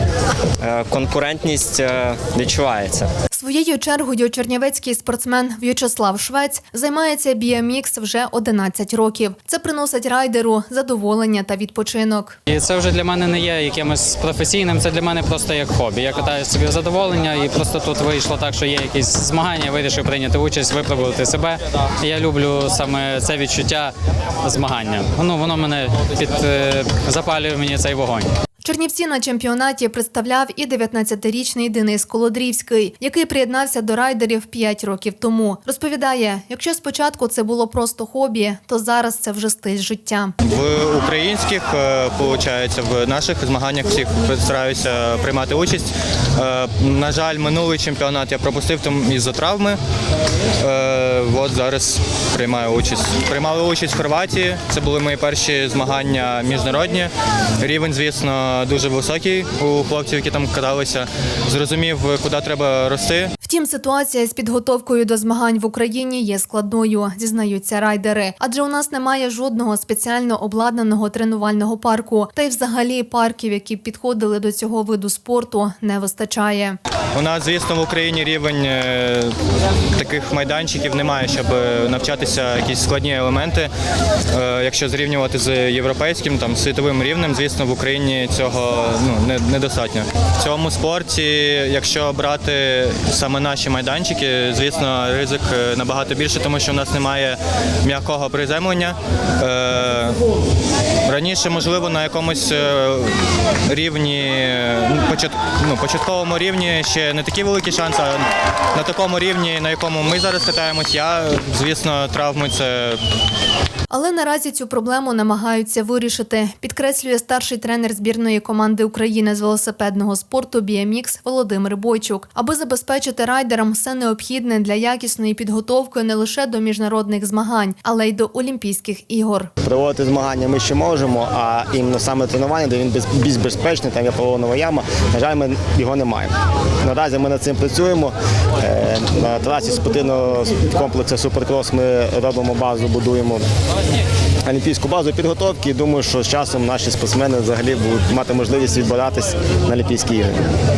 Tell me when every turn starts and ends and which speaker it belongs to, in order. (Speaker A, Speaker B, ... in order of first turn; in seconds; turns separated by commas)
Speaker A: 0.6-3.1, Speaker B: 3.3-12.4, Speaker C: 12.5-23.9, Speaker C: 24.4-28.3, Speaker B: 28.6-40.3, Speaker D: 40.5-49.8, Speaker D: 50.6-63.3, Speaker B: 63.4-76.8, Speaker D: 77.1-79.3, Speaker D: 80.0-83.7, Speaker D: 84.3-100.2, Speaker D: 101.1-113.0, Speaker B: 113.9-129.5, Speaker E: 129.6-143.4, Speaker E: 144.4-150.4